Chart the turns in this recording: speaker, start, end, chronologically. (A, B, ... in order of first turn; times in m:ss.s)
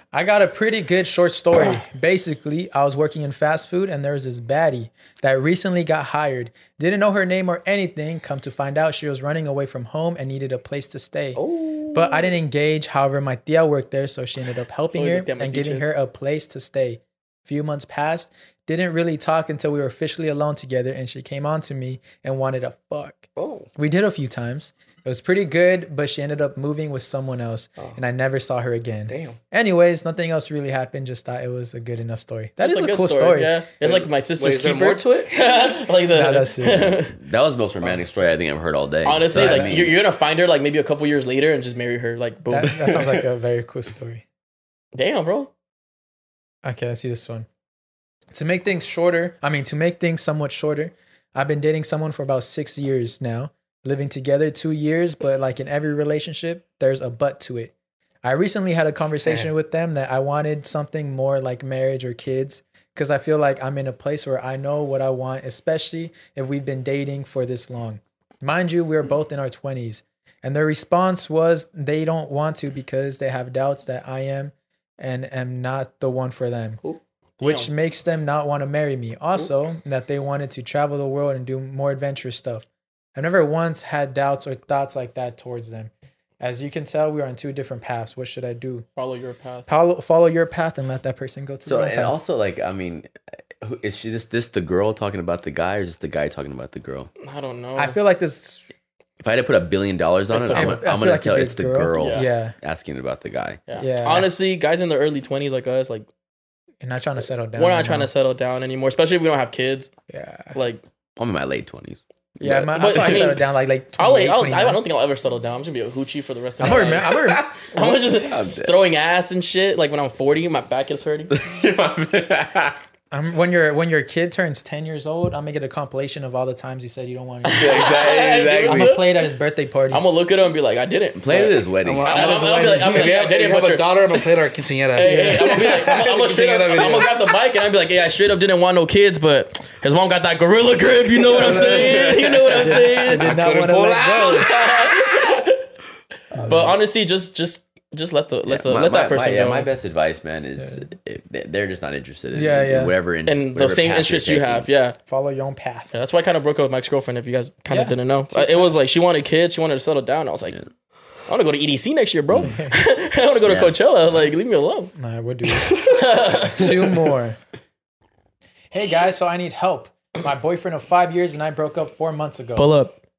0:00.1-0:11.4 A
0:11.4-0:12.3 B
0:11.9-0:23.2 A
0:14.9-0:15.9 B
0:23.4-0:23.7 C
0:23.8-0:33.6 A
0:29.1-0:29.4 C
0:32.6-0:37.2 B
0:33.8-0:35.3 C
0:36.1-0:37.0 A
0:37.1-0:40.0 D
0:39.0-0:43.2 B
0:39.4-0:39.8 A
0:42.5-0:44.2 A
0:44.9-0:45.5 B
0:46.6-0:47.5 A
0:48.3-0:57.7 A
0:58.2-1:16.8 A
0:59.2-0:59.5 C
1:17.4-1:17.7 B
1:17.4-1:28.8 A
1:29.0-1:29.7 B
1:29.7-1:32.1 A
1:31.6-1:33.1 D
1:33.6-1:37.1 D
1:37.2-1:38.0 B
1:37.8-1:38.7 A
1:39.2-1:43.6 D
1:40.3-1:40.8 B
1:40.5-1:42.6 A
1:42.0-1:42.3 B
1:43.7-1:46.1 B
1:43.8-1:44.3 A
1:46.8-1:48.1 A
1:47.6-1:49.9 B
1:50.1-1:50.6 A
1:50.6-1:50.8 B
1:51.2-1:53.2 D
1:52.4-1:54.8 A
1:52.7-1:53.4 B
1:54.0-2:01.3 B
1:56.6-1:57.5 A
1:57.7-1:58.7 D
2:01.3-2:02.8 D
2:03.1-2:07.7 A
2:07.5-2:09.1 B
2:07.6-2:09.0 D
2:08.7-2:10.0 A
2:09.9-2:14.2 B
2:11.2-2:12.7 D
2:11.8-2:17.1 C
2:14.9-2:23.3 B
2:15.0-2:15.7 A
2:21.2-2:24.5 C
2:22.6-2:24.5 A
2:24.4-2:25.6 B
2:26.3-2:26.7 D
2:26.4-2:26.7 A
2:26.5-2:29.7 B
2:28.5-2:34.7 D
2:30.6-2:30.9 A
2:32.3-2:32.9 A
2:33.3-2:35.0 B
2:35.1-2:35.9 A
2:35.9-2:40.6 B
2:37.7-2:38.8 A
2:41.3-2:44.9 B
2:42.3-2:42.6 D
2:43.4-2:43.8 D
2:45.0-2:45.8 A
2:45.7-2:46.9 B
2:46.5-2:47.4 A
2:48.7-2:52.7 A
2:52.6-2:53.0 B